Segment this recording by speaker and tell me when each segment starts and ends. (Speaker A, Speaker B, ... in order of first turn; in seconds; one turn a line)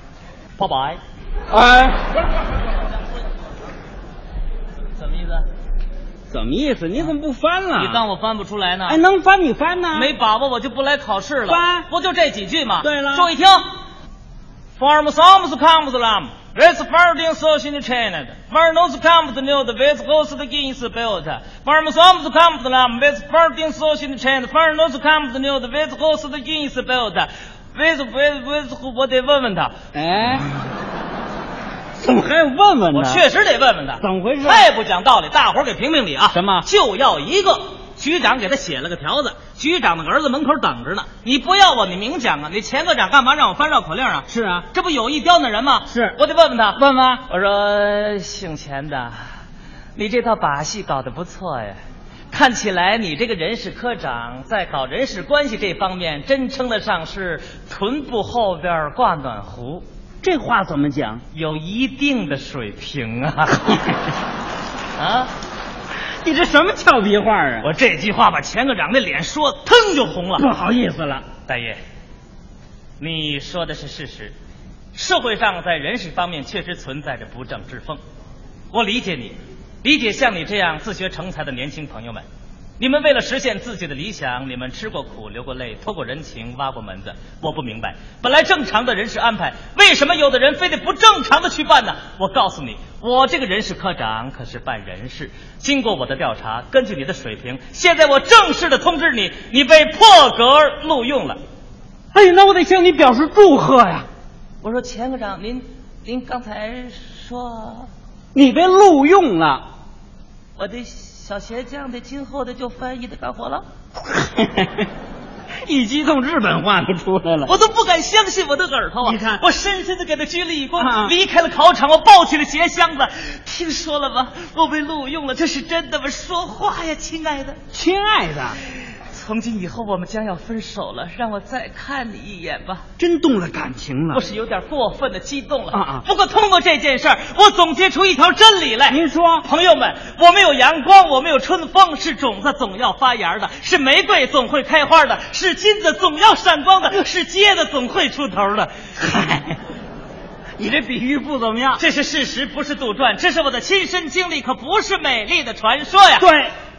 Speaker A: 0.6-1.0
Speaker B: 1.5-2.2
Speaker A: 5.0-5.5
Speaker B: 6.3-8.0
Speaker A: 7.8-9.0
Speaker B: 8.9-10.1
Speaker A: 9.9-13.7
Speaker B: 11.5-11.9
Speaker B: 12.8-13.3
Speaker A: 14.8-29.8
Speaker B: 29.9-30.5
Speaker B: 32.0-33.2
Speaker A: 32.9-49.2
Speaker B: 34.0-34.7
Speaker B: 36.3-36.7
Speaker B: 44.3-44.7
Speaker B: 45.9-46.2
Speaker B: 46.8-47.2
Speaker A: 50.0-51.8
Speaker A: 52.3-59.8
Speaker B: 60.2-61.2
Speaker A: 61.3-63.7
Speaker A: 65.0-65.3
Speaker B: 66.2-67.7
Speaker A: 67.6-70.5
Speaker B: 70.4-71.3
Speaker A: 71.5-71.8
Speaker A: 73.0-74.3
Speaker A: 74.9-78.0
Speaker A: 78.7-82.2
Speaker A: 82.8-101.4
Speaker B: 102.1-104.1
Speaker A: 104.6-107.9
Speaker B: 108.3-109.7
Speaker A: 110.6-113.7
Speaker B: 114.0-114.9
Speaker B: 115.6-117.5
Speaker A: 117.5-127.6
Speaker B: 119.0-119.4
Speaker B: 120.8-121.1
Speaker B: 127.7-128.6
Speaker A: 128.9-132.8
Speaker B: 133.0-134.2
Speaker A: 134.1-148.8
Speaker B: 135.7-136.1
Speaker B: 138.9-139.5
Speaker B: 149.0-149.6
Speaker B: 150.6-151.8
Speaker A: 151.8-156.3
Speaker B: 156.2-156.5